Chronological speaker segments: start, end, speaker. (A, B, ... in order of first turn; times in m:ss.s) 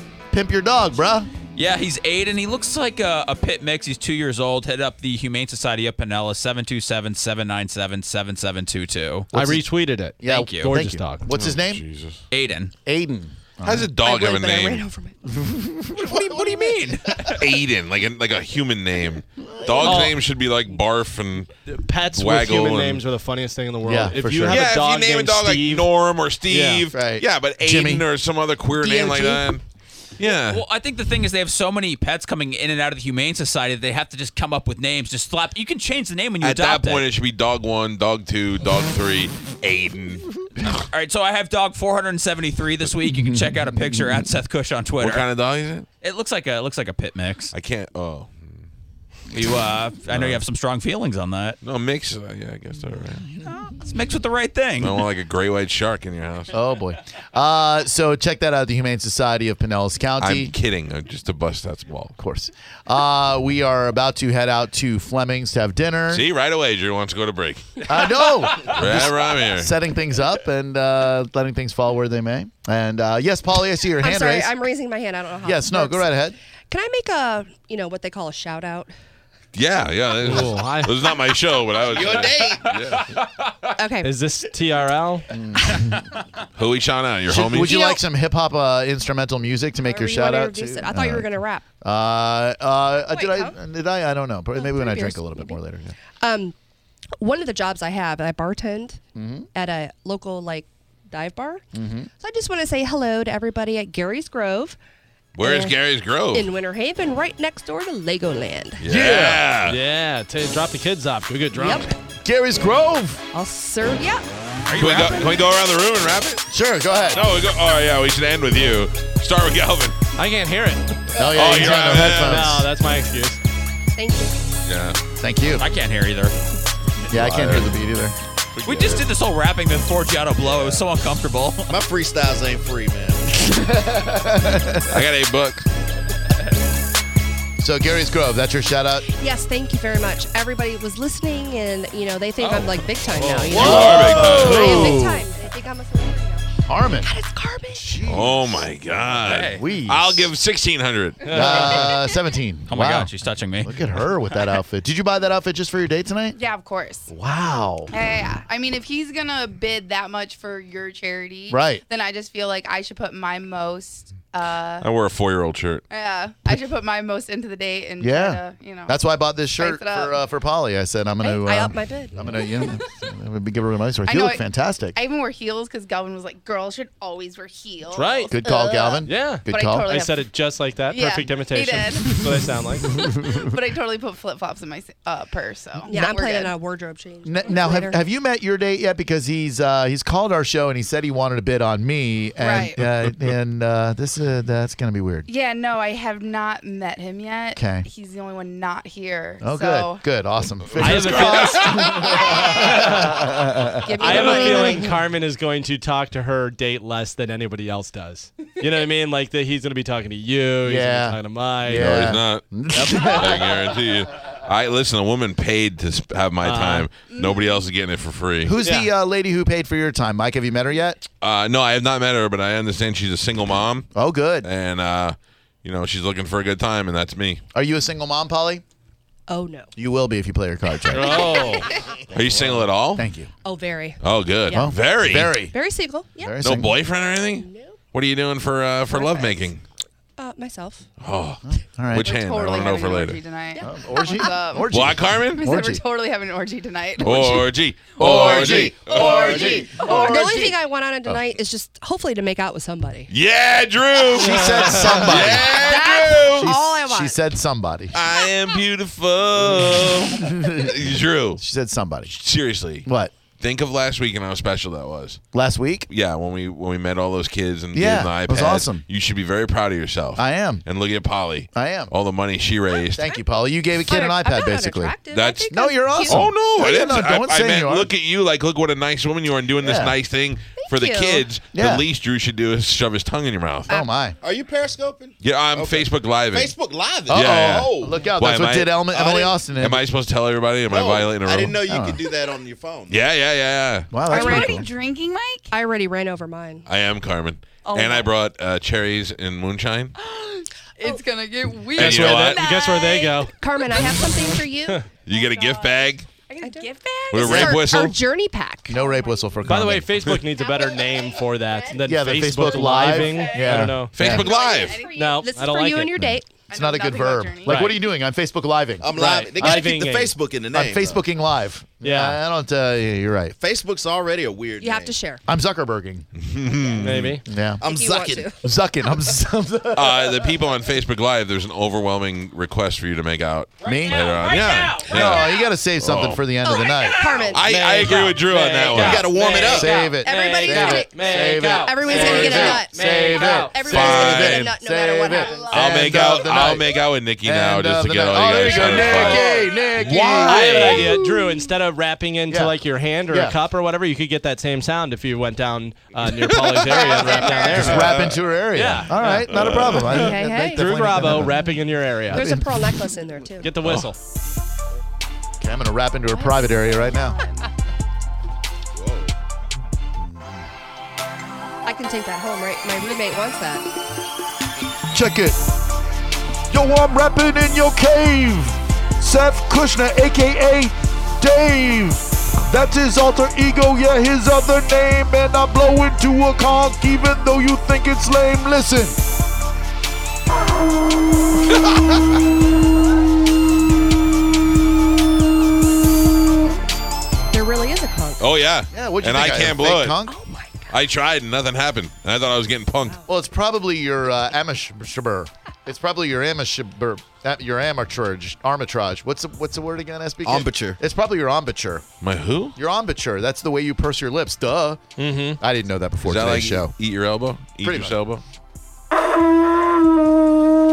0:00.3-0:01.3 A
0:01.6-0:09.3 B
0:09.3-0:09.6 A
0:09.3-0:11.3 C
0:10.2-0:11.8 A
0:10.2-0:10.7 B
0:11.3-0:12.2 D
0:12.3-0:12.7 B
0:12.8-0:13.9 A
0:13.6-0:14.8 D
0:14.0-0:15.2 E
0:15.3-0:16.1 A
0:16.0-0:17.4 B
0:17.3-0:21.5 D
0:19.4-0:20.1 A
0:19.8-0:20.2 C
0:21.7-0:25.9 C
0:22.1-0:23.0 D
0:23.8-0:24.6 A
0:24.4-0:29.6 D
0:26.5-0:26.9 C
0:26.9-0:28.0 A
0:28.8-0:29.4 E
0:30.2-0:30.6 D
0:30.5-0:37.0 B
0:36.4-0:40.3 D
0:40.9-0:45.2 B
0:43.2-0:44.0 A
0:45.0-0:45.8 D
0:46.0-0:47.5 B
0:47.5-0:48.6 D
0:49.3-0:51.6 B
0:50.1-0:50.4 D
0:51.6-0:53.2 D
0:53.8-0:55.0 B
0:54.8-0:56.5 D
0:56.5-1:00.5 A
1:00.2-1:02.1 D
1:02.2-1:06.2 A
1:06.1-1:09.7 D
1:07.8-1:14.5 A
1:14.0-1:16.1 E
1:15.4-1:16.4 A
1:16.7-1:18.9 E
1:19.5-1:23.1 D
1:20.2-1:20.9 C
1:21.9-1:22.8 F
1:23.8-1:24.1 E
1:24.0-1:25.3 C
1:25.3-1:26.1 A
1:26.6-1:27.8 D
1:27.3-1:31.3 A
1:27.6-1:28.0 E
1:29.8-1:31.6 E
1:31.8-1:36.0 A
1:33.1-1:33.6 E
1:34.5-1:35.6 E
1:36.2-1:36.5 E
1:37.2-1:39.0 E
1:39.1-1:39.5 A
1:39.5-1:41.6 E
1:41.7-1:42.1 A
1:42.2-1:44.8 E
1:45.4-1:46.5 D
1:45.4-1:45.7 E
1:46.3-1:48.8 E
1:48.8-1:49.8 D
1:48.8-1:49.4 A
1:49.6-1:51.9 C
1:51.5-1:51.9 E
1:52.2-1:53.2 A
1:53.3-1:54.3 E
1:54.7-1:55.2 B
1:54.8-1:56.4 D
1:56.5-1:57.2 A
1:57.1-2:00.0 D
2:00.2-2:01.0 C
2:01.1-2:02.7 A
2:01.2-2:02.6 D
2:02.1-2:03.4 C
2:04.0-2:04.4 E
2:04.6-2:05.0 D
2:05.2-2:05.6 A
2:05.6-2:06.3 B
2:07.1-2:07.7 D
2:07.1-2:08.2 A
2:08.6-2:09.1 D
2:08.6-2:11.7 B
2:11.7-2:13.4 F
2:13.9-2:14.9 A
2:14.9-2:15.6 D
2:17.6-2:19.0 A
2:19.1-2:27.8 E
2:23.2-2:23.6 C
2:23.5-2:25.1 D
2:23.5-2:25.2 A
2:26.7-2:27.1 A
2:27.7-2:28.6 A
2:28.0-2:31.3 D
2:29.2-2:29.6 B
2:29.3-2:30.3 A
2:31.2-2:31.8 C
2:31.3-2:33.1 A
2:32.7-2:33.8 B
2:33.6-2:36.4 A
2:36.3-2:37.1 G
2:37.1-2:37.9 A
2:37.9-2:44.8 G
2:41.5-2:41.8 A
2:44.8-2:45.8 D
2:45.9-2:48.9 G
2:48.0-2:55.0 A
2:49.6-2:50.1 G
2:51.2-2:52.7 E
2:54.0-2:54.4 G
2:54.9-3:00.2 G
2:57.9-2:58.4 C
2:58.3-2:59.9 A
2:59.0-3:03.0 C
3:00.9-3:02.2 G
3:02.9-3:06.5 G
3:02.9-3:03.4 A
3:05.9-3:08.0 E
3:07.2-3:15.3 A
3:12.4-3:12.8 G
3:15.3-3:20.0 G
3:17.5-3:17.8 A
3:19.4-3:24.7 A
3:20.8-3:22.1 D
3:20.8-3:22.0 C
3:21.9-3:22.5 G
3:22.7-3:23.2 C
3:24.0-3:32.1 C
3:24.0-3:24.8 G
3:24.0-3:24.8 E
3:30.6-3:33.5 A
3:31.7-3:38.5 D
3:36.4-3:36.9 C
3:37.1-3:37.6 G
3:38.4-3:41.0 A
3:38.6-3:38.9 C
3:41.2-3:43.9 D
3:43.9-3:44.5 A
3:44.4-3:47.4 D
3:47.5-3:48.6 A
3:49.3-3:49.7 E
3:49.8-3:51.4 A
3:50.9-3:51.7 C
3:50.9-3:51.8 E
3:52.1-3:53.0 D
3:52.1-3:53.3 A
3:53.4-3:54.8 E
3:54.0-3:55.3 D
3:54.5-3:55.5 A
3:55.5-3:56.3 E
3:56.2-3:56.8 A
3:56.4-3:59.6 D
3:57.3-3:57.8 E
3:58.9-3:59.5 E
4:00.2-4:00.8 E
4:01.0-4:03.2 D
4:01.4-4:02.1 A
4:02.0-4:07.4 G
4:03.6-4:04.3 E
4:03.6-4:05.8 A
4:04.7-4:05.4 D
4:07.0-4:09.6 D
4:07.0-4:07.4 A
4:08.0-4:10.5 A
4:08.0-4:09.6 F
4:09.0-4:10.5 G
4:09.8-4:13.1 E
4:13.1-4:16.5 D
4:14.1-4:15.7 A
4:15.5-4:17.1 E
4:16.3-4:18.0 A
4:17.9-4:21.4 D
4:20.1-4:20.8 A
4:21.4-4:22.1 A
4:22.1-4:22.8 D
4:22.8-4:23.1 A
4:23.4-4:25.2 D
4:25.3-4:25.9 A
4:25.9-4:33.1 D
4:27.7-4:28.8 A
4:30.2-4:30.6 A
4:31.5-4:31.9 A
4:32.8-4:33.1 E
4:33.0-4:34.9 A
4:33.8-4:36.3 E
4:35.1-4:43.7 D
4:35.5-4:37.9 A
4:39.6-4:39.9 A
4:40.6-4:41.2 E
4:41.5-4:41.8 A
4:43.7-4:44.2 A
4:44.2-4:48.0 F
4:45.2-4:46.5 D
4:47.1-4:49.8 A
4:47.1-4:48.9 D
4:48.9-4:49.3 F
4:49.5-4:51.6 D
4:50.7-4:53.0 F
4:51.7-4:52.0 A
4:52.9-4:53.9 D
4:53.9-4:54.6 A
4:54.1-4:55.5 G
4:54.1-4:54.7 E
4:55.5-4:56.6 E
4:56.6-4:59.9 D
4:57.7-4:58.0 G
4:57.7-4:58.0 E
5:00.0-5:03.2 G
5:01.7-5:03.3 C
5:01.8-5:02.4 D
5:02.4-5:04.8 E
5:05.0-5:06.1 D
5:05.1-5:07.6 G
5:06.4-5:09.1 E
5:07.1-5:08.0 D
5:07.2-5:07.6 A
5:08.7-5:10.0 A
5:08.8-5:09.4 G
5:09.4-5:14.0 C
5:10.4-5:11.8 G
5:11.8-5:14.3 A
5:12.4-5:15.4 G
5:13.9-5:14.8 D
5:14.3-5:16.4 E
5:14.8-5:16.0 C
5:16.0-5:19.7 A
5:16.5-5:17.7 G
5:17.4-5:17.8 C
5:18.8-5:21.0 F
5:18.9-5:20.3 C
5:20.5-5:23.4 A
5:21.8-5:22.2 C
5:23.4-5:25.0 F
5:24.6-5:25.2 E
5:25.3-5:26.1 A
5:26.1-5:27.2 D
5:26.8-5:27.2 C
5:27.2-5:27.6 A
5:27.6-5:28.3 F
5:27.6-5:28.4 E
5:28.4-5:30.2 A
5:29.7-5:36.2 D
5:33.6-5:34.0 A
5:34.0-5:34.7 B
5:34.8-5:37.1 A
5:36.4-5:37.5 E
5:37.3-5:39.1 D
5:37.3-5:43.6 C
5:38.8-5:39.7 F
5:38.8-5:51.1 A
5:40.0-5:45.6 E
5:41.9-5:42.2 G
5:43.6-5:44.5 D
5:45.1-5:46.2 G
5:45.5-5:49.3 D
5:49.1-5:49.5 G
5:49.8-5:58.0 C
5:50.3-5:51.2 E
5:52.3-5:52.6 A
5:53.1-5:53.4 A
5:56.3-5:56.7 D
5:56.6-5:57.7 G
5:57.0-6:01.5 A
5:57.4-5:58.2 D
5:58.5-5:59.3 C
5:59.3-6:00.0 D
5:59.9-6:00.6 E
6:00.3-6:02.3 C
6:02.1-6:02.7 A
6:02.1-6:03.6 E
6:03.4-6:04.0 C
6:05.4-6:07.2 A
6:06.2-6:07.4 G
6:08.8-6:09.1 F
6:10.0-6:10.4 A
6:11.6-6:13.6 E
6:14.9-6:15.4 A
6:16.5-6:29.0 A
6:37.3-6:38.2 E
6:38.2-6:40.0 D
6:38.7-6:40.2 A
6:40.0-6:40.8 E
6:40.7-6:43.0 D
6:43.1-6:51.8 A
6:50.2-6:50.8 F
6:52.0-6:52.5 D
6:52.6-6:54.8 A
6:55.0-6:55.4 C
6:55.4-6:56.7 A
6:56.0-6:58.2 D
6:57.6-6:58.0 A